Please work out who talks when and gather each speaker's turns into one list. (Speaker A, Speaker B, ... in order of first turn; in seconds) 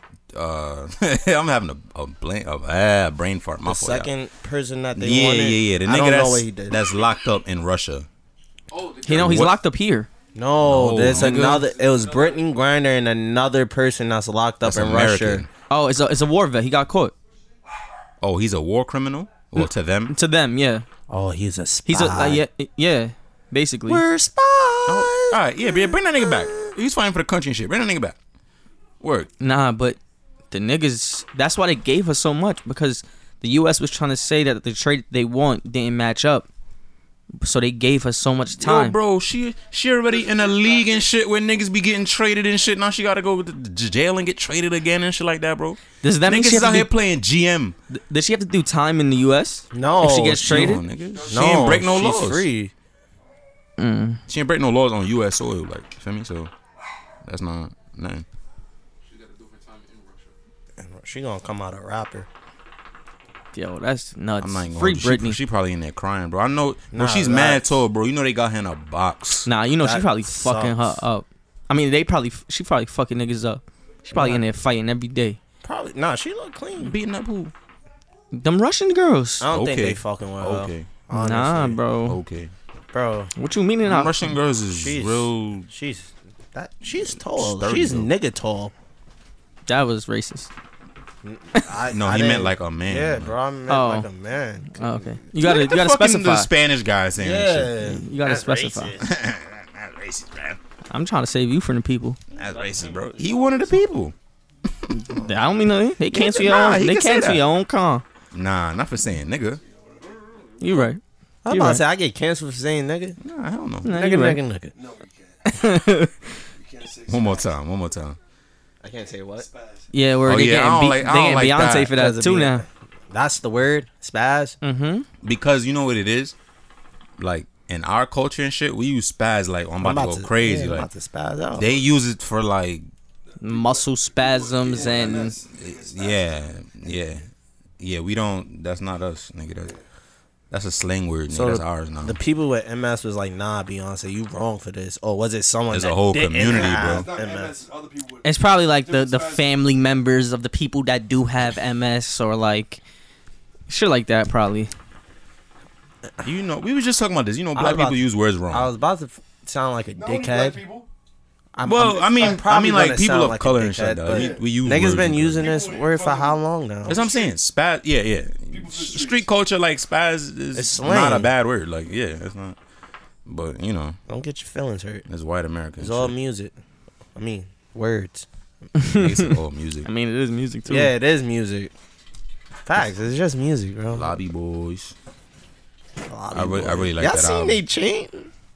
Speaker A: 0.3-4.1, 4.9-8.1, 9.1-9.6, 10.6-11.6, 14.6-15.5, 18.2-20.1, 24.9-28.2, 29.0-29.3, 38.5-47.8, 50.2-52.5, 54.3-56.5, 57.2-58.2, 64.4-69.5, 76.8-77.5, 79.4-80.9, 82.0-82.5, 83.8-85.7, 87.0-88.1, 91.9-93.3, 95.4-98.0, 99.0-100.6, 102.3-104.1, 104.7-105.1, 106.1-107.4, 108.3-109.6, 113.2-113.9, 117.0-118.2, 120.2-121.9, 125.2-126.3, 127.2-130.9, 131.5-132.9, 135.4-137.3, 137.8-139.8, 140.5-142.2, 145.7-147.1, 156.2-158.7, 161.6-165.5, 166.9-172.6, 173.2-174.0, 175.1-176.2, 178.9-179.9, 183.9-184.9, 186.3-187.6
Speaker B: 3.6-6.8, 10.3-15.5, 21.1-22.4, 23.9-26.7, 49.7-50.7, 51.3-52.7, 60.8-62.3, 66.9-67.7, 69.8-71.0, 74.1-74.5, 75.6-77.0, 79.4-81.8, 82.9-83.3, 84.7-88.7, 91.2-95.1, 97.2-99.1, 111.4-113.2, 113.8-114.7, 118.8-119.5, 121.8-124.6, 129.8-131.8, 141.3-147.6, 157.5-160.6, 161.5-167.1, 170.5-171.3, 174.1-175.1, 175.8-176.5, 177.1-178.2, 180.7-181.7, 182.7-184.1, 186.0-188.3
Speaker C: 8.7-9.5, 11.3-12.5, 40.1-41.0, 51.1-52.2, 59.0-60.3, 102.4-103.8, 109.6-110.5, 114.7-115.5, 116.5-117.6, 119.3-119.9, 133.4-136.6, 146.4-148.3, 148.8-149.5, 159.9-160.9, 164.1-164.4, 165.4-167.3, 168.5-169.3
Speaker D: 9.1-10.1, 11.2-11.6, 15.7-17.1, 19.6-20.9, 21.9-24.0, 29.4-30.0, 30.5-36.5, 37.4-39.0, 46.0-46.9, 47.9-50.8, 53.8-54.2, 63.5-65.4, 69.5-75.4, 78.3-79.4, 81.1-82.2, 83.3-84.2, 89.7-90.5, 93.7-94.1, 94.8-96.5, 97.8-99.0, 100.9-102.2, 104.9-108.0, 110.6-111.8, 113.8-114.4, 115.4-116.4, 119.9-122.6, 124.6-125.0, 133.4-135.4, 148.2-152.8, 153.7-154.7, 178.8-180.9